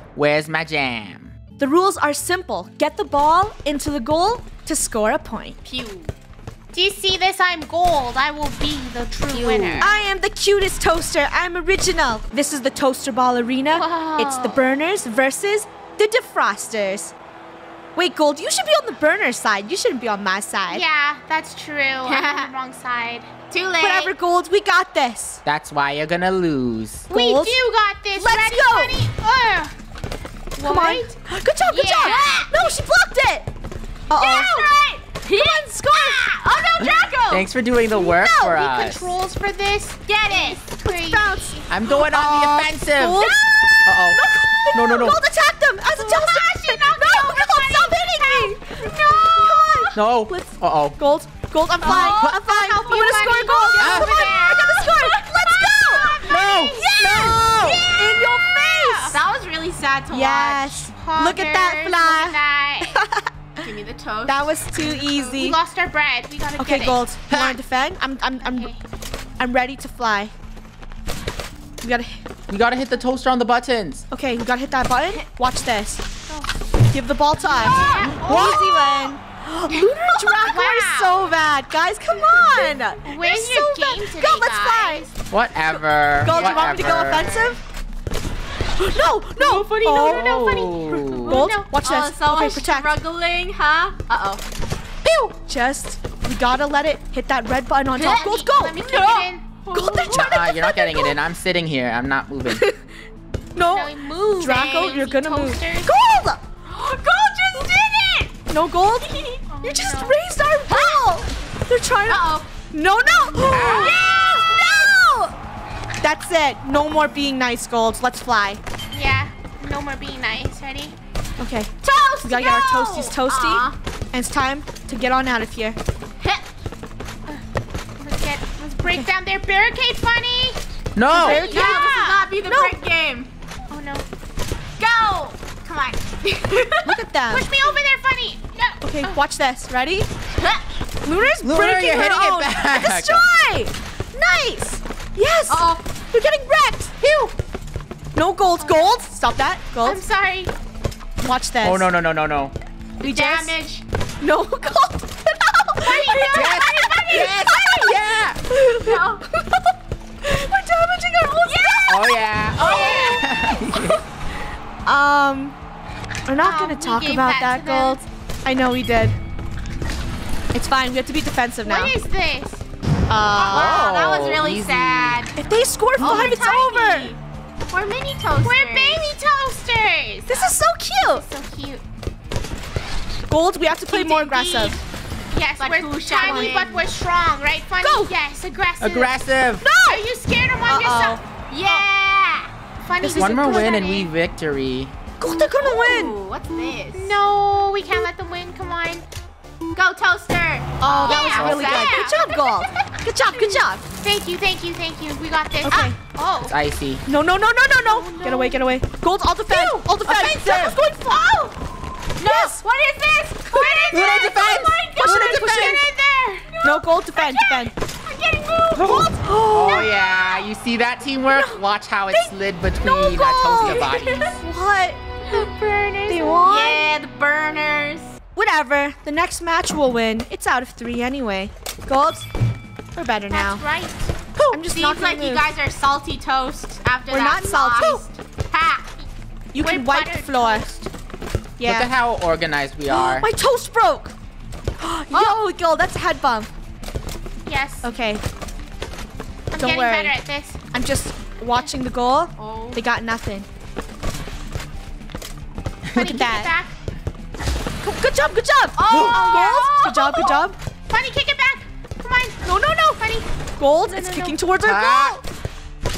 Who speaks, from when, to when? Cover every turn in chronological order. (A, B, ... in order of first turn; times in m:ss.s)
0:00.2-0:01.4 A
0:01.6-0:05.6 B
0:05.6-0:06.1 C
0:06.7-0:09.9 D
0:09.3-0:10.0 C
0:09.8-0:17.1 B
0:13.7-0:14.6 D
0:18.0-0:20.8 B
0:20.7-0:23.3 D
0:22.0-0:22.5 C
0:23.5-0:24.1 C
0:23.8-0:25.4 B
0:25.4-0:27.1 A
0:27.1-0:29.8 D
0:27.1-0:27.6 B
0:28.2-0:29.0 B
0:30.6-0:33.5 B
0:30.6-0:31.1 D
0:31.7-0:32.6 D
0:32.0-0:32.4 C
0:34.1-0:34.7 B
0:34.1-0:37.5 C
0:35.2-0:36.4 B
0:36.8-0:39.1 A
0:37.9-0:38.6 B
0:38.5-0:41.6 D
0:40.1-0:40.6 C
0:40.8-0:56.2 B
0:41.7-0:43.3 A
0:43.2-0:43.5 C
0:43.8-0:44.2 A
0:44.7-0:45.2 A
0:46.0-0:49.5 D
0:49.0-0:49.4 C
0:50.0-0:51.0 A
0:51.8-0:53.1 C
0:51.8-0:52.4 A
0:51.8-0:54.9 D
0:53.8-0:54.3 A
0:53.9-0:56.2 C
0:55.8-0:59.2 D
0:56.3-0:57.8 A
0:56.8-0:59.2 B
0:59.1-1:00.8 C
1:00.1-1:03.3 B
1:01.0-1:03.0 D
1:03.6-1:05.3 C
1:04.3-1:05.6 B
1:05.2-1:07.4 D
1:06.6-1:08.7 B
1:07.3-1:07.6 A
1:08.4-1:08.8 D
1:09.4-1:10.3 B
1:11.8-1:12.2 B
1:12.5-1:14.0 A
1:14.1-1:16.0 B
1:16.9-1:25.1 B
1:17.4-1:18.5 C
1:17.5-1:19.1 D
1:20.2-1:21.2 D
1:23.0-1:25.1 D
1:25.3-1:27.5 A
1:26.2-1:27.6 B
1:26.3-1:27.6 C
1:28.8-1:30.4 B
1:29.4-1:31.7 D
1:30.1-1:31.5 A
1:31.3-1:32.9 B
1:31.6-1:34.4 C
1:35.0-1:41.2 B
1:38.0-1:39.5 D
1:38.0-1:40.4 C
1:40.1-1:42.6 A
1:42.5-1:42.8 B
1:43.6-1:46.4 B
1:43.7-1:46.0 D
1:44.5-1:45.0 C
1:46.7-1:48.4 C
1:48.5-1:55.3 B
1:49.0-1:49.4 C
1:49.5-1:50.2 D
1:50.7-1:51.1 C
1:52.1-1:52.5 C
1:53.5-1:54.0 A
1:53.6-1:54.7 C
1:56.0-1:58.6 B
1:58.9-2:01.0 D
2:01.4-2:05.8 B
2:01.8-2:03.8 C
2:08.0-2:10.6 D
2:11.0-2:11.6 A
2:11.1-2:11.8 B
2:11.1-2:12.3 D
2:11.3-2:13.3 C
2:12.4-2:12.8 B
2:13.7-2:14.1 D
2:14.8-2:17.0 C
2:16.8-2:17.5 B
2:17.3-2:19.2 D
2:18.8-2:20.1 B
2:20.4-2:20.6 C
2:21.0-2:27.3 B
2:21.4-2:23.3 A
2:25.5-2:25.8 C
2:28.2-2:30.0 B
2:28.6-2:29.0 D
2:29.8-2:30.5 D
2:31.2-2:31.9 B
2:31.6-2:32.5 A
2:33.0-2:33.8 C
2:33.0-2:33.5 B
2:34.2-2:36.4 B
2:35.8-2:37.4 D
2:35.9-2:37.0 C
2:36.3-2:38.4 A
2:37.0-2:39.7 B
2:38.8-2:39.2 C
2:40.2-2:42.1 B
2:41.4-2:43.2 C
2:41.9-2:44.0 A
2:42.6-2:43.3 D
2:44.9-2:45.6 B
2:46.3-2:49.2 B
2:46.4-2:48.0 D
2:50.5-2:52.0 B
2:51.6-2:52.6 D
2:53.1-2:53.9 B
2:53.4-2:55.3 C
2:53.4-2:55.2 A
2:55.4-2:57.1 B
2:56.0-2:57.2 C
2:56.0-2:56.3 A
2:57.7-2:59.1 C
2:58.4-3:00.6 D
3:00.3-3:01.2 B
3:01.1-3:01.8 D
3:03.3-3:04.8 B
3:03.9-3:09.2 D
3:05.6-3:06.8 C
3:06.2-3:06.6 B
3:07.8-3:08.1 B
3:08.8-3:09.7 A
3:09.6-3:10.0 B
3:09.8-3:11.9 D
3:10.7-3:11.2 B
3:11.5-3:12.5 C
3:12.8-3:14.1 D
3:13.0-3:14.9 A
3:13.1-3:13.3 B
3:15.2-3:16.2 B
3:15.3-3:17.2 C
3:17.0-3:19.1 D
3:19.8-3:22.3 C
3:20.8-3:23.8 B
3:20.8-3:22.2 D
3:21.1-3:21.9 A
3:24.0-3:26.6 D
3:25.6-3:26.0 B
3:26.4-3:27.0 A
3:27.1-3:31.0 B
3:27.8-3:28.6 D
3:29.5-3:29.8 D
3:30.1-3:30.8 A
3:30.8-3:31.5 D
3:32.2-3:35.8 C
3:32.2-3:32.6 B
3:33.5-3:33.9 B
3:33.6-3:34.0 D
3:33.9-3:35.8 A
3:35.0-3:36.6 D
3:35.0-3:35.8 B
3:36.6-3:37.7 B
3:37.1-3:39.1 C
3:38.8-3:44.4 A
3:38.8-3:39.9 B
3:39.6-3:40.4 D
3:41.3-3:41.6 B
3:42.8-3:43.9 B
3:43.2-3:44.4 C
3:44.4-3:45.0 B
3:45.3-3:46.5 D
3:46.1-3:46.9 B
3:46.4-3:48.1 C
3:48.4-3:52.3 B
3:53.0-3:53.6 B
3:53.3-3:54.1 D
3:54.4-3:58.9 C
3:54.5-3:55.4 B
3:57.1-3:58.0 B
3:59.5-4:00.9 B
3:59.6-4:00.7 D
4:01.6-4:01.9 B
4:01.6-4:03.3 A
4:02.9-4:04.1 B
4:04.8-4:06.5 B
4:05.1-4:05.4 C
4:07.5-4:07.9 D
4:07.8-4:08.2 B
4:09.5-4:10.2 B
4:09.5-4:10.6 D
4:10.7-4:13.5 B
4:12.4-4:12.8 C
4:15.9-4:16.2 A
4:16.0-4:16.7 D
4:16.0-4:16.5 B
4:17.8-4:20.6 B
4:18.8-4:20.4 C
4:18.9-4:19.2 A
4:19.3-4:19.6 D
4:20.9-4:22.4 D
4:22.4-4:23.0 B
4:23.0-4:23.3 D
4:23.6-4:25.2 B
4:23.9-4:24.4 D
4:24.6-4:25.2 A